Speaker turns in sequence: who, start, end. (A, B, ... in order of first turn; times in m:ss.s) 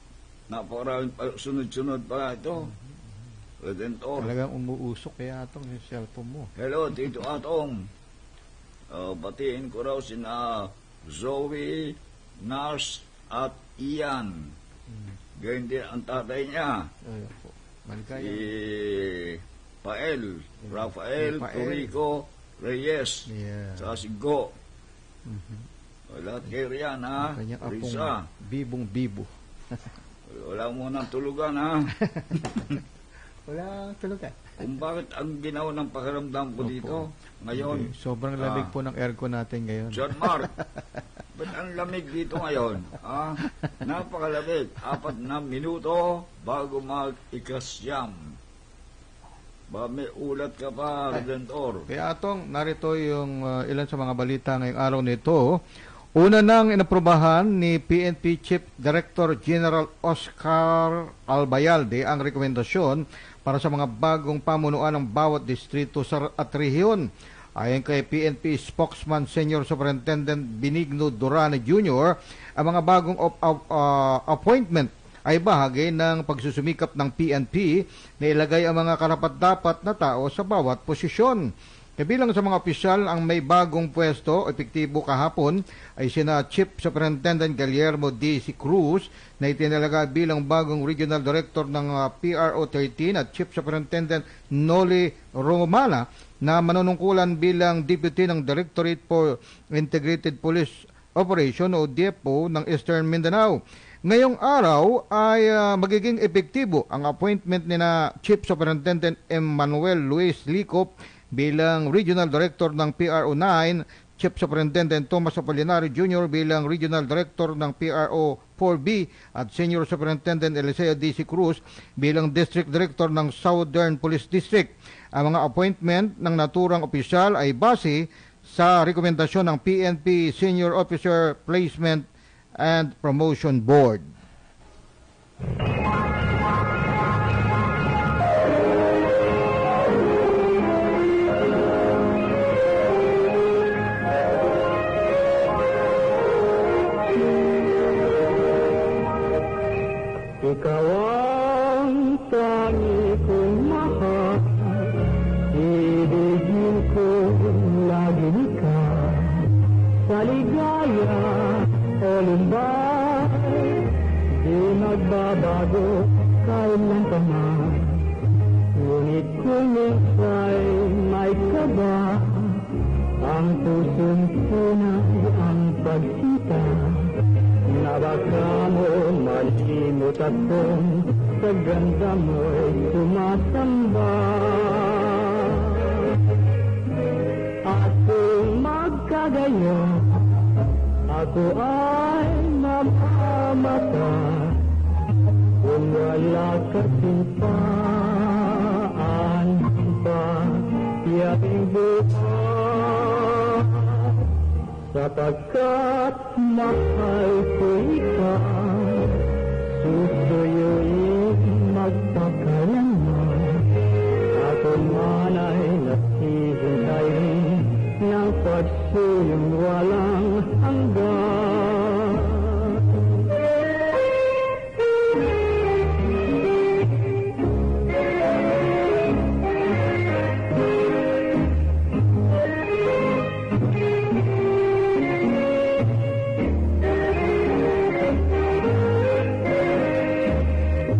0:00.5-0:02.7 A
0:02.6-0:03.0 B
0:03.6-0:04.3 A
0:04.2-0:06.5 B
0:06.6-0:07.8 A
0:08.9-0:14.6 A
0:14.9-0:15.2 B
0:15.4-0:16.9 A
0:17.0-0:18.5 B
0:18.2-0:24.6 A
0:20.7-0:21.9 B
0:23.3-0:24.0 B
0:25.3-0:25.7 B
0:26.1-0:28.2 A
0:27.2-0:29.8 B
0:30.3-0:31.9 A
0:32.1-0:32.8 B
0:33.5-0:34.4 B
0:34.6-0:38.7 A
0:36.6-0:41.0 B
0:39.9-0:40.5 A
0:41.4-0:48.4 A
0:49.7-0:51.9 A
0:51.9-0:55.6 B
0:56.2-1:07.0 B
1:07.6-2:12.1 B
2:12.6-2:14.1 B
2:30.4-2:34.7 C
2:35.5-2:39.4 C
2:40.1-2:43.8 C
2:44.4-2:48.0 C
2:48.8-2:52.6 C
2:53.2-2:57.1 C
2:57.7-3:05.6 C
3:07.7-3:10.0 C
3:11.1-3:14.6 C
3:15.6-3:23.3 C
3:24.9-3:29.0 C
3:29.8-3:33.6 C
3:34.4-3:42.3 C